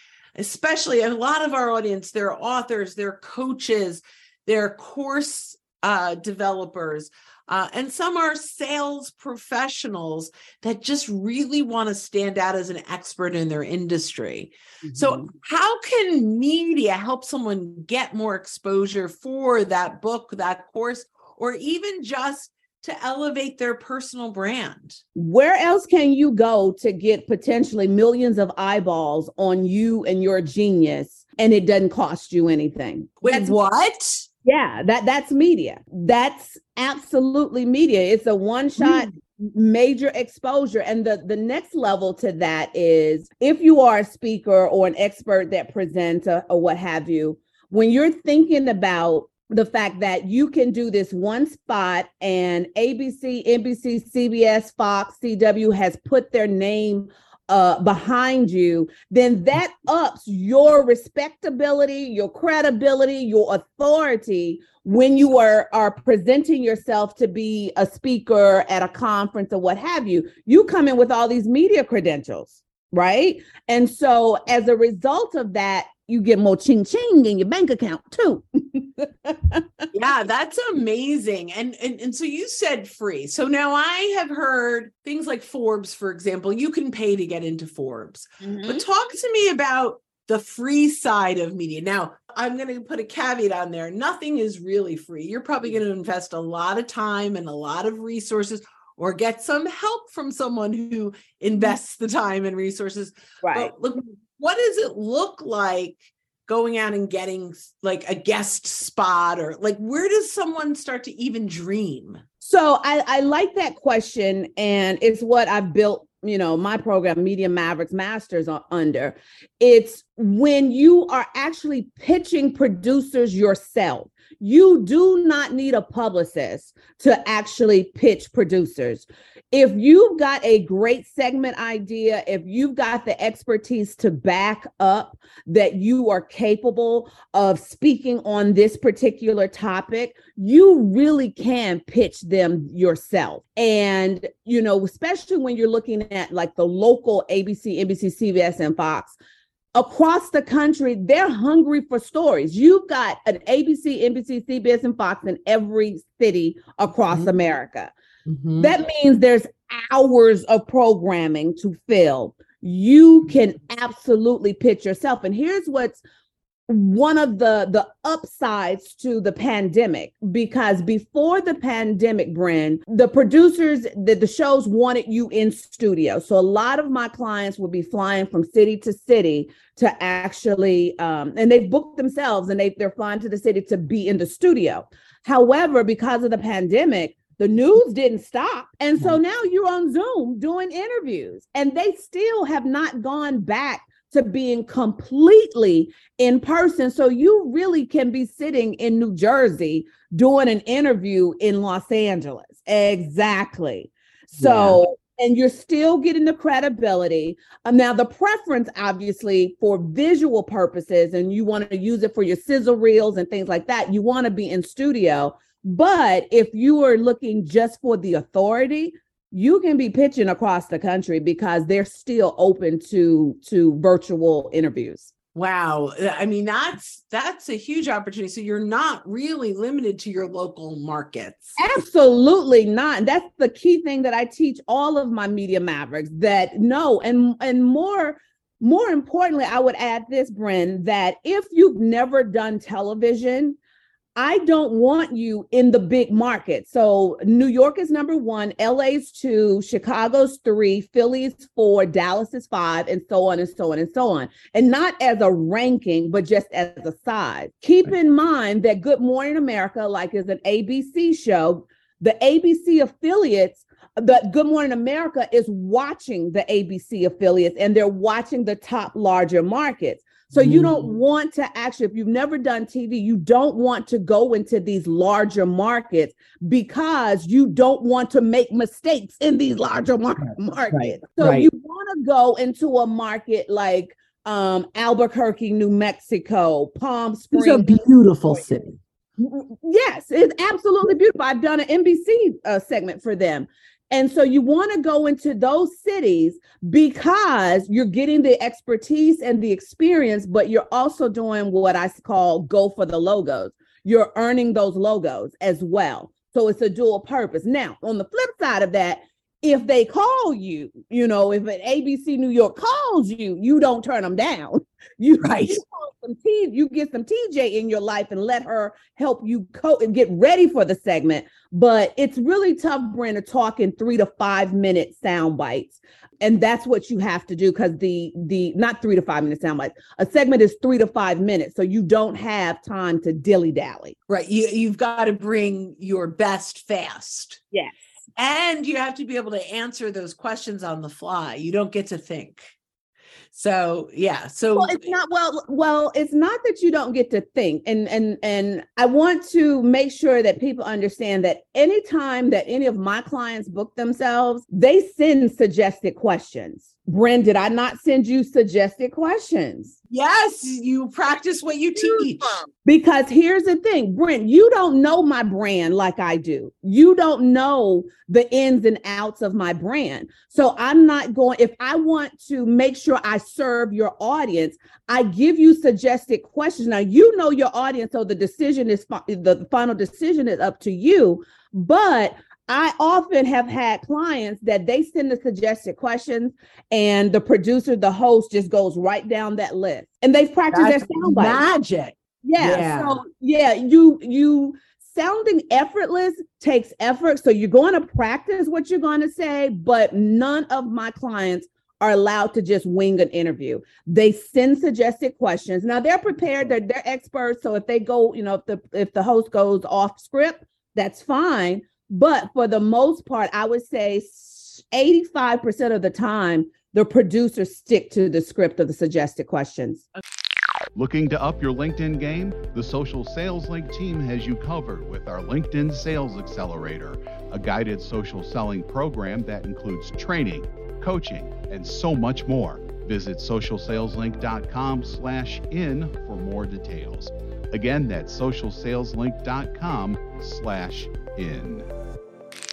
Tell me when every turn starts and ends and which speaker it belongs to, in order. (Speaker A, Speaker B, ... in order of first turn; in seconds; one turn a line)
Speaker A: 0.4-25.0
Speaker B: 14.9-15.3
Speaker B: 25.1-33.6
Speaker A: 33.2-34.2
Speaker B: 34.4-79.7
Speaker A: 38.8-39.1
Speaker A: 79.9-112.2
Speaker B: 88.4-88.8
Speaker B: 103.4-103.7
Speaker B: 112.4-149.2
Speaker B: 149.7-157.9
Speaker A: 158.3-158.7
Speaker B: 158.6-166.0
Speaker B: 166.7-225.1
Speaker A: 204.4-204.8
Speaker A: 225.3-231.6
Speaker B: 231.6-243.6
Speaker B: 244.2-288.4
Speaker A: 270.3-270.9
Speaker A: 280.2-281.5
Speaker A: 287.3-288.8
Speaker B: 289.2-333.9
Speaker A: 315.2-315.6
Speaker A: 334.1-337.4
Speaker A: 338.1-342.4
Speaker A: 343.3-344.9
Speaker B: 344.5-359.8
Speaker A: 359.9-362.4
Speaker B: 361.8-391.4
Speaker A: 390.5-393.0
Speaker B: 392.2-419.8
Speaker C: 420.8-441.7